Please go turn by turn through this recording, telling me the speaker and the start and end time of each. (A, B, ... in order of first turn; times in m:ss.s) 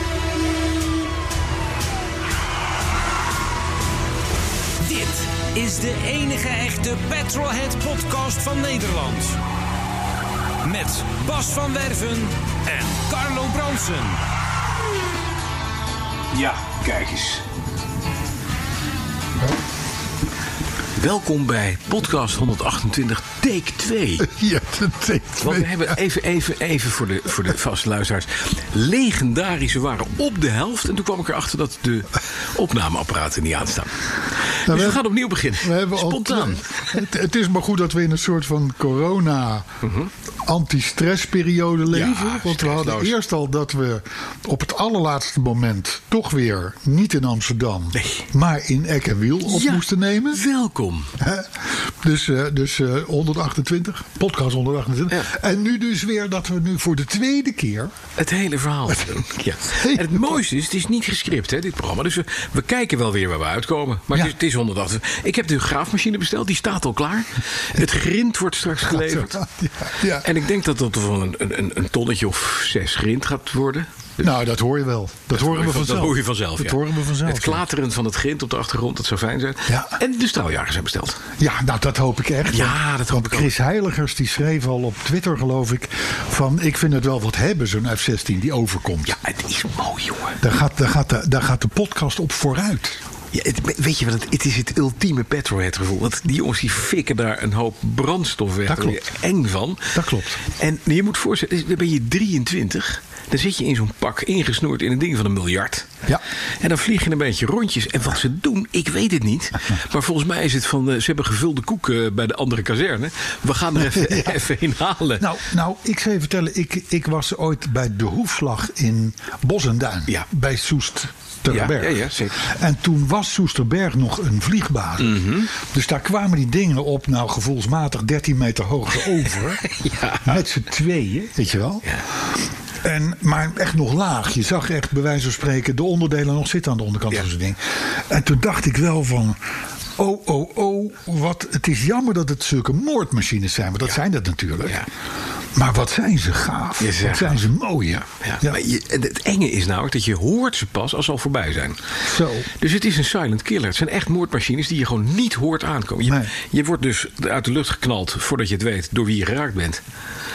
0:04.8-0:09.4 A
0:10.6-0:14.2 A
0:16.3-0:17.4 B
0:21.0-0:24.3 B
0:24.2-0:26.0 C
0:25.4-0:34.0 B
0:34.5-0:37.0 B
0:34.6-0:39.7 C
0:39.8-0:40.1 B
0:40.4-0:50.4 C
0:41.9-0:43.2 B
0:47.9-0:48.2 B
0:49.5-0:51.2 B
0:51.2-0:57.9 C
0:58.2-1:09.4 B
0:59.8-1:00.2 C
1:08.8-1:10.3 C
1:10.0-1:14.3 B
1:14.2-1:17.6 C
1:15.3-1:21.2 B
1:19.7-1:20.0 C
1:21.4-1:29.2 C
1:22.5-1:23.5 B
1:29.0-1:30.4 B
1:30.4-1:33.0 C
1:33.3-1:45.9 B
1:38.7-1:39.0 C
1:39.9-1:40.4 C
1:46.6-1:55.3 B
1:53.8-1:54.4 C
1:55.2-2:09.6 C
2:01.5-2:02.4 B
2:05.0-2:05.5 B
2:09.6-2:10.4 B
2:10.2-2:19.4 C
2:20.0-2:24.9 C
2:25.5-2:28.6 C
2:26.8-2:27.4 B
2:28.2-2:31.8 B
2:32.0-2:32.5 C
2:32.6-2:39.8 B
2:36.0-2:36.3 C